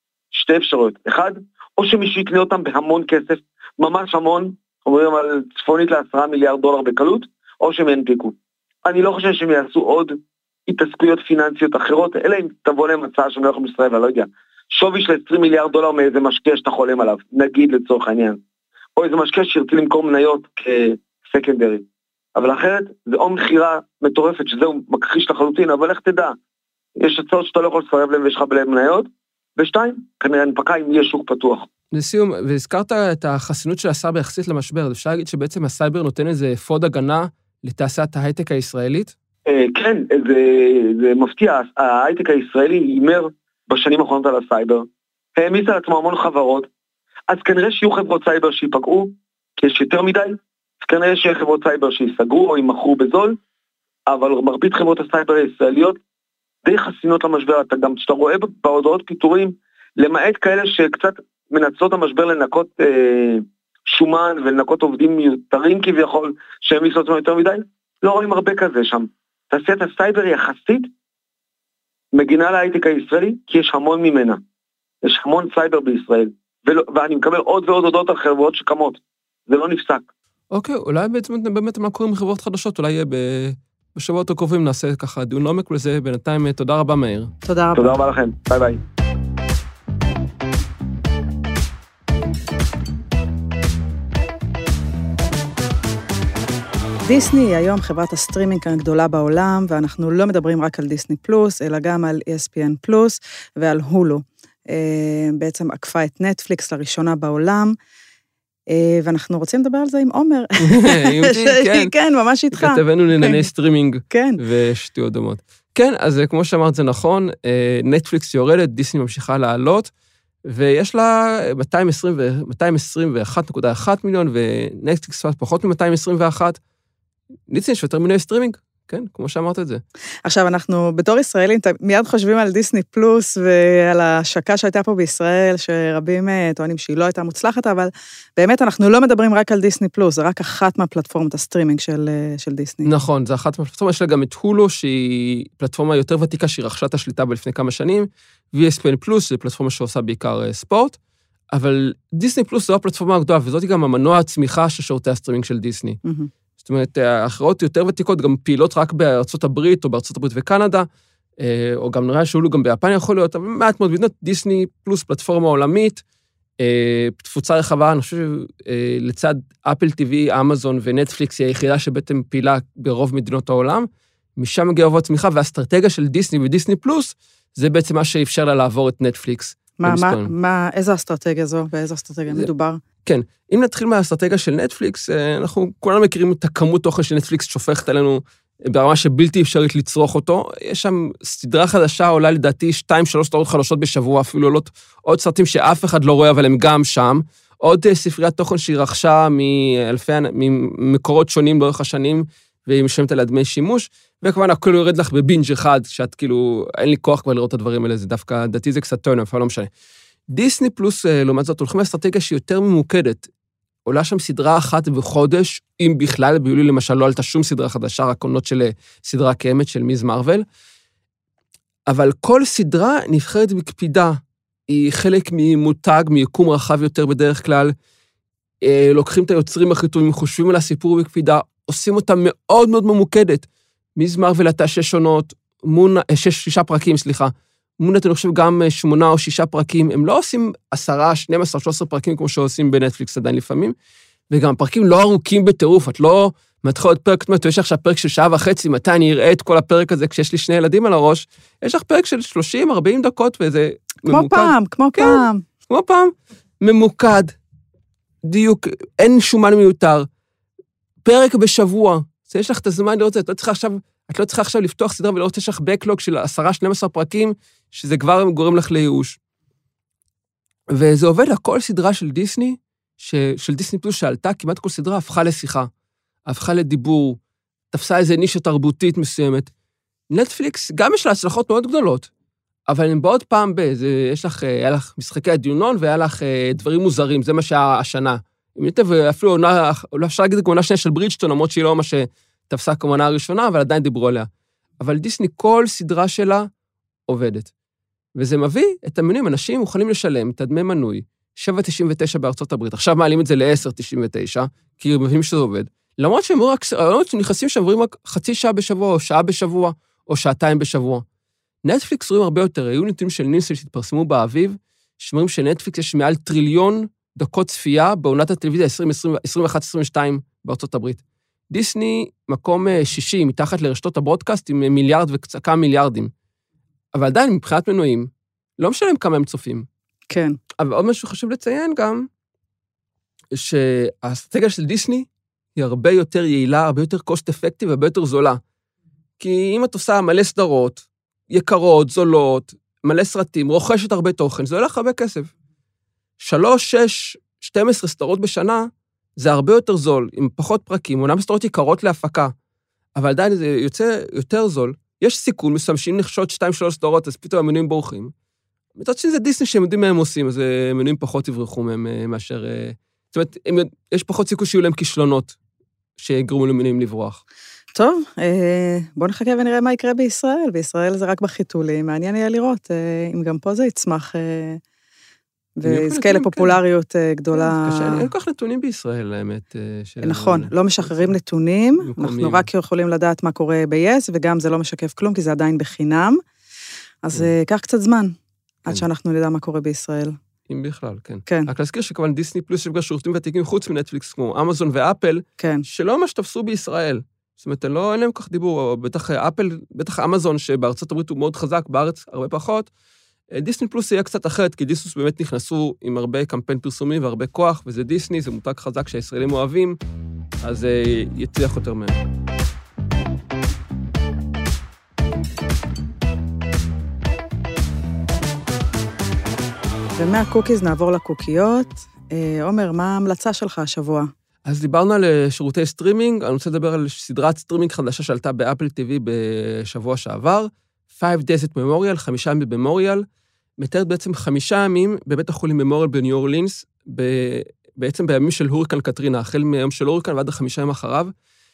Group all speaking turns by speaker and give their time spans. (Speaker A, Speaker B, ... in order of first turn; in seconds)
Speaker A: 0.3-18.4, 19.0-26.4, 27.0-31.7, 39.5-44.9, 45.4-46.7, 47.3-53.4, 54.1-56.0, 56.6-70.9, 72.1-74.4, 75.0-80.1, 87.8-88.8
Speaker B: 31.9-39.1, 80.5-87.3, 110.6-112.0, 112.5-119.9, 120.5-126.6, 127.5-129.8, 142.8-151.0, 151.5-156.0, 156.6-160.9, 161.4-166.0, 166.6-180.3, 183.1-209.7, 210.3-213.3, 213.8-220.4, 221.9-227.7, 228.6-243.8, 244.3-257.4, 258.2-260.1, 261.0-269.2, 270.7-275.7, 276.3-277.2, 277.7-279.5, 280.1-282.1, 282.7-294.3, 294.8-296.5, 297.1-297.5, 298.2-311.0, 311.6-326.1, 326.9-329.7, 330.6-332.1, 333.3-338.4, 339.2-345.3, 346.2-352.3, 353.0-358.1, 358.8-365.4, 366.0-367.2, 375.6-376.6, 377.3-381.1, 381.8-382.5, 390.5-402.7, 403.3-409.8, 410.4-412.0, 424.4-433.0, 433.6-441.1
Speaker C: 87.5-88.0, 97.0-107.8, 108.7-113.5, 114.1-114.4, 130.2-142.9, 156.1-156.3, 179.8-182.8, 254.1-255.5, 330.1-330.4, 367.8-374.6, 375.6-378.1, 380.0-386.2, 387.0-390.1, 391.3-391.5, 395.4-395.7, 420.0-424.1